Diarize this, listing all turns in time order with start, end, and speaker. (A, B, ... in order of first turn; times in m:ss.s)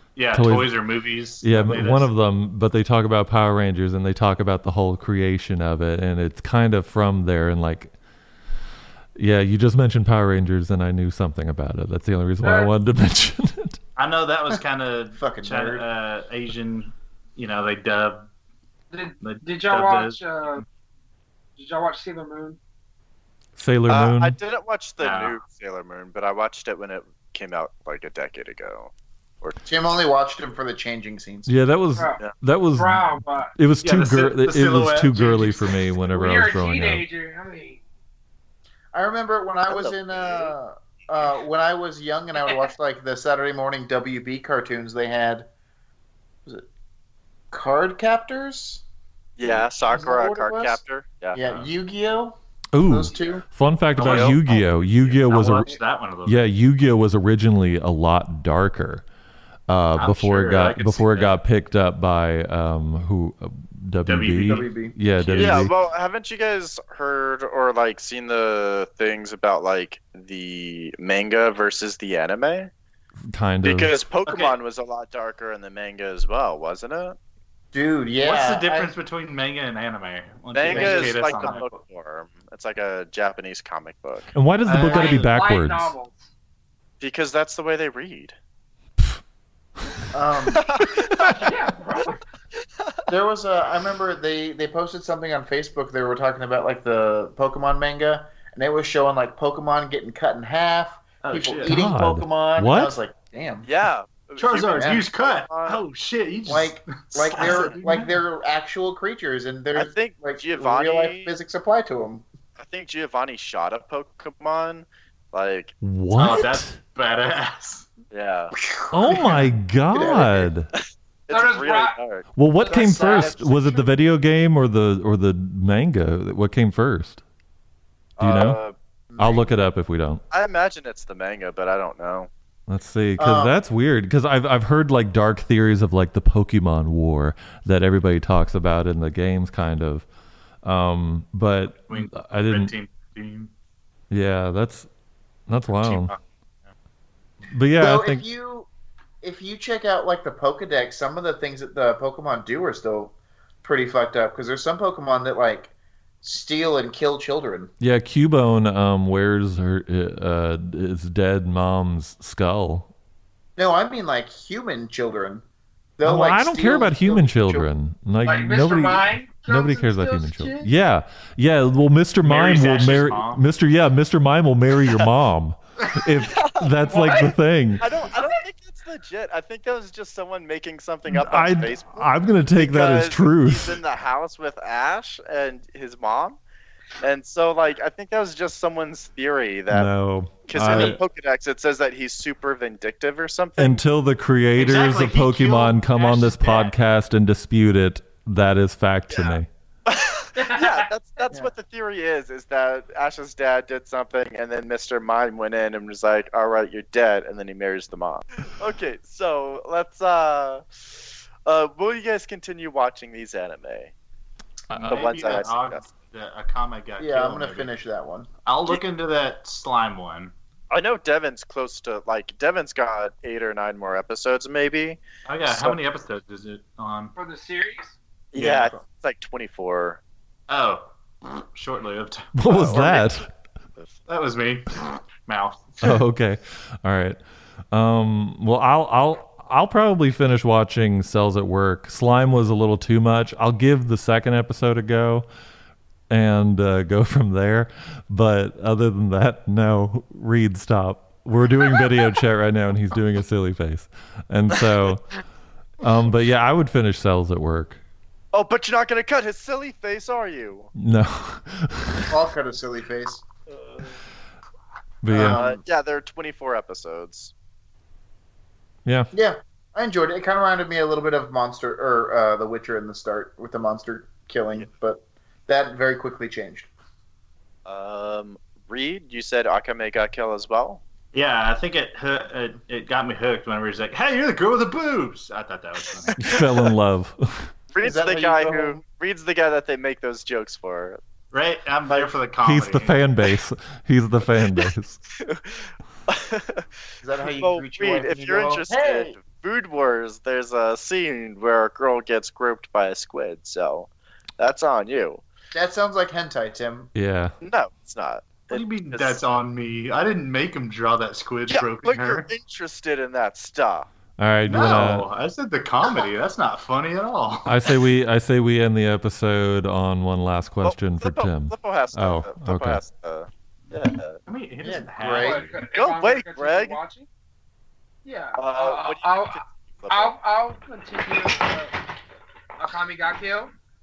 0:00.2-0:02.1 A
0:00.3-0:00.8 B
0:01.4-0:07.9 B
0:09.2-0:13.8 B
0:12.4-0:12.7 C
0:14.0-0:18.3 A
0:15.1-0:15.9 D
0:18.9-0:20.6 C
0:19.2-0:20.6 A
0:21.6-0:22.6 C
0:23.6-0:24.4 B
0:23.9-0:29.6 E
0:25.0-0:25.4 A
0:29.6-0:31.5 D
0:31.4-0:37.0 B
0:32.8-0:33.5 C
0:33.8-0:35.9 A
0:36.1-0:37.8 C
0:38.9-0:45.5 D
0:39.7-0:40.5 E
0:47.5-0:48.8 D
0:49.4-0:51.7 E
0:49.4-0:50.8 D
0:51.3-0:53.4 D
0:52.7-0:59.0 B
0:54.0-0:56.4 A
0:54.0-0:54.4 E
0:59.7-1:05.7 B
1:00.0-1:01.3 A
1:04.0-1:04.6 A
1:04.4-1:05.0 D
1:05.2-1:05.6 A
1:05.3-1:12.7 E
1:13.3-1:13.9 B
1:13.6-1:17.2 E
1:17.7-1:19.0 D
1:18.2-1:21.7 A
1:20.5-1:24.3 E
1:20.7-1:21.5 D
1:24.3-1:25.9 B
1:24.6-1:25.4 A
1:24.8-1:26.3 C
1:27.0-1:28.3 E
1:30.1-1:30.6 D
1:30.5-1:31.5 E
1:31.3-1:32.2 C
1:33.1-1:43.7 D
1:41.2-1:41.8 A
1:41.6-1:43.0 B
1:43.6-1:45.8 E
1:44.4-1:48.2 A
1:44.7-1:45.1 D
1:46.4-1:52.2 D
1:47.4-1:47.8 E
1:49.7-1:51.3 E
1:52.6-1:55.7 E
1:55.8-1:56.8 B
1:56.1-1:57.9 A
1:58.1-1:58.5 E
1:58.6-2:00.5 D
1:58.9-2:00.7 B
2:01.3-2:02.3 E
2:01.3-2:01.9 C
2:02.4-2:07.2 B
2:02.6-2:04.0 D
2:02.9-2:03.3 E
2:08.2-2:08.7 E
2:08.2-2:08.6 B
2:09.1-2:09.5 D
2:09.2-2:10.2 B
2:10.3-2:12.3 E
2:12.7-2:20.1 B
2:13.2-2:13.6 D
2:20.6-2:22.7 B
2:21.9-2:23.5 A
2:24.1-2:24.9 B
2:25.5-2:26.1 B
2:27.5-2:28.2 B
2:27.8-2:28.7 D
2:29.2-2:37.7 D
2:37.8-2:42.9 B
2:43.6-2:45.4 D
2:46.0-2:47.7 D
2:46.0-2:57.9 B
2:48.2-2:50.7 C
2:52.2-2:53.4 A
2:56.2-2:56.7 E
2:56.8-2:57.4 C
2:57.8-3:06.4 E
3:01.1-3:03.8 B
3:07.0-3:09.9 E
3:09.7-3:11.0 B
3:10.5-3:13.8 E
3:13.6-3:19.5 B
3:14.5-3:16.7 A
3:19.1-3:33.9 E
3:20.4-3:20.9 C
3:34.7-3:35.1 B
3:34.7-3:37.7 A
3:34.9-3:35.8 E
3:35.0-3:35.5 D
3:37.0-3:38.3 D
3:38.4-3:40.3 A
3:40.7-3:45.8 E
3:45.2-3:47.1 A
3:47.2-3:48.0 C
3:48.3-3:50.0 E
3:48.4-3:48.7 A
3:50.5-3:52.9 A
3:52.3-3:53.3 B
3:52.4-3:53.1 E
3:54.1-3:55.9 A
3:55.8-3:57.2 B
3:57.7-4:05.3 B
4:06.1-4:15.0 B
4:15.8-4:17.8 B
4:18.3-4:20.7 E
4:20.7-4:22.2 B
4:22.1-4:23.2 D
4:23.5-4:23.9 E
4:25.0-4:25.4 B
4:25.1-4:25.6 D
4:25.3-4:27.3 E
4:28.8-4:29.1 B
4:29.1-4:36.7 D
4:37.6-4:40.8 E
4:41.1-4:46.3 A
4:46.2-4:47.5 B
4:47.7-4:51.0 E
4:47.8-4:48.8 D
4:51.3-4:53.0 A
4:51.9-4:52.1 E
4:52.4-4:55.0 B
4:55.2-4:56.6 E
4:57.0-4:59.2 D
4:57.4-5:05.2 E
5:05.5-5:06.9 D
5:06.9-5:07.3 B
5:07.4-5:09.2 E
5:08.5-5:12.3 A
5:11.5-5:13.9 E
5:14.2-5:15.1 B
5:14.4-5:17.6 A
5:17.4-5:22.8 B
5:20.6-5:24.2 E
5:24.2-5:25.6 A
5:24.6-5:25.5 D
5:25.2-5:27.1 C
5:25.6-5:26.8 E
5:28.0-5:31.8 C
5:28.4-5:30.1 E
5:32.6-5:33.5 C